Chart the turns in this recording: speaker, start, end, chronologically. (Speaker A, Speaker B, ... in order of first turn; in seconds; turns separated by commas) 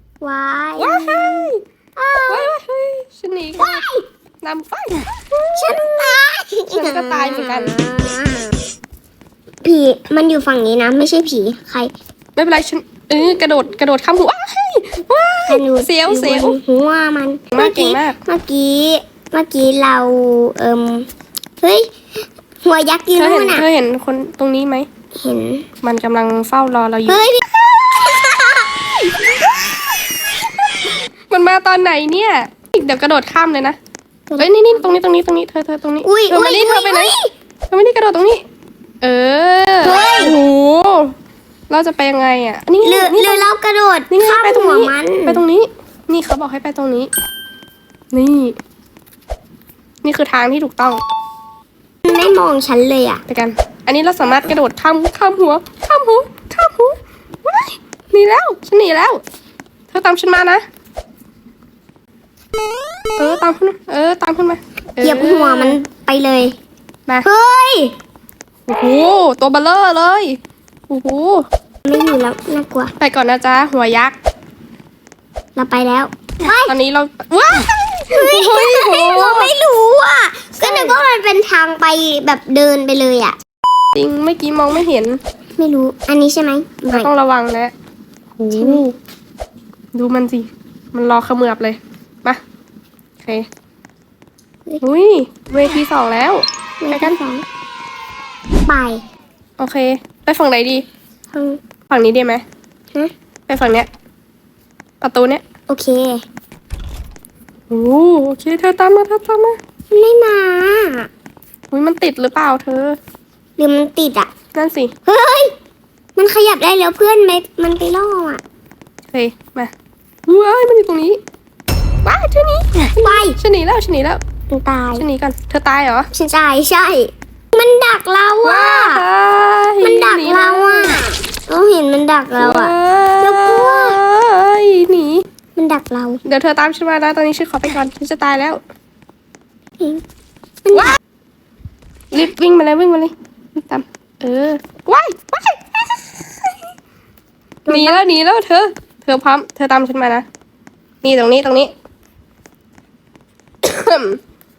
Speaker A: 0.2-2.5, Speaker B: 0.8-1.6, Speaker B: 2.3-3.8, Speaker A: 3.5-4.0, Speaker B: 4.4-6.1, Speaker A: 5.5-8.6, Speaker B: 6.7-7.8, Speaker A: 9.6-11.9, Speaker B: 12.3-16.6, Speaker A: 15.5-21.1, Speaker B: 17.5-18.2, Speaker A: 21.6-21.9, Speaker A: 22.6-23.6, Speaker B: 23.1-24.9, Speaker A: 25.2-25.7, Speaker B: 25.8-27.3, Speaker A: 27.1-29.3, Speaker B: 31.3-33.8, Speaker A: 34.3-34.8, Speaker B: 34.4-37.1, Speaker A: 36.0-37.3, Speaker B: 37.7-38.4, Speaker B: 39.0-41.1, Speaker A: 39.8-40.4, Speaker B: 41.7-43.5, Speaker A: 42.8-45.4, Speaker B: 44.1-47.1, Speaker B: 48.1-48.6, Speaker B: 50.0-51.0, Speaker A: 52.0-53.2, Speaker B: 53.3-59.2, Speaker B: 59.9-60.6, Speaker B: 63.2-65.8, Speaker A: 65.0-66.5, Speaker A: 67.2-67.9, Speaker B: 68.7-71.4, Speaker A: 71.8-72.9, Speaker B: 73.0-74.2, Speaker A: 75.5-76.7, Speaker B: 76.7-79.5, Speaker A: 78.1-83.4, Speaker B: 80.6-81.0, Speaker B: 83.9-85.2, Speaker A: 85.6-87.1, Speaker B: 86.9-87.7, Speaker B: 88.4-88.9, Speaker A: 88.5-88.8, Speaker B: 89.9-92.4, Speaker B: 94.8-97.1, Speaker A: 96.8-97.4, Speaker A: 98.7-99.0, Speaker B: 99.6-100.8, Speaker A: 101.3-101.6, Speaker B: 101.9-102.4, Speaker B: 103.5-103.9, Speaker B: 105.0-105.4, Speaker A: 105.7-106.2, Speaker B: 107.7-109.6, Speaker A: 109.9-111.1, Speaker B: 111.7-113.0, Speaker A: 113.6-114.3, Speaker B: 114.5-114.9, Speaker A: 115.1-115.5, Speaker A: 116.2-118.4, Speaker B: 119.1-119.7, Speaker B: 120.3-121.2, Speaker B: 122.0-122.7, Speaker A: 123.0-123.4, Speaker B: 123.3-124.2, Speaker A: 124.5-125.0, Speaker B: 124.9-126.1, Speaker A: 126.1-129.0, Speaker B: 128.4-131.0, Speaker A: 129.8-134.0, Speaker B: 132.4-135.2, Speaker A: 135.6-136.2, Speaker B: 136.2-138.6, Speaker B: 140.7-140.9, Speaker B: 142.1-145.6, Speaker A: 147.7-148.1, Speaker B: 147.7-150.2, Speaker B: 151.0-151.7, Speaker B: 153.6-154.2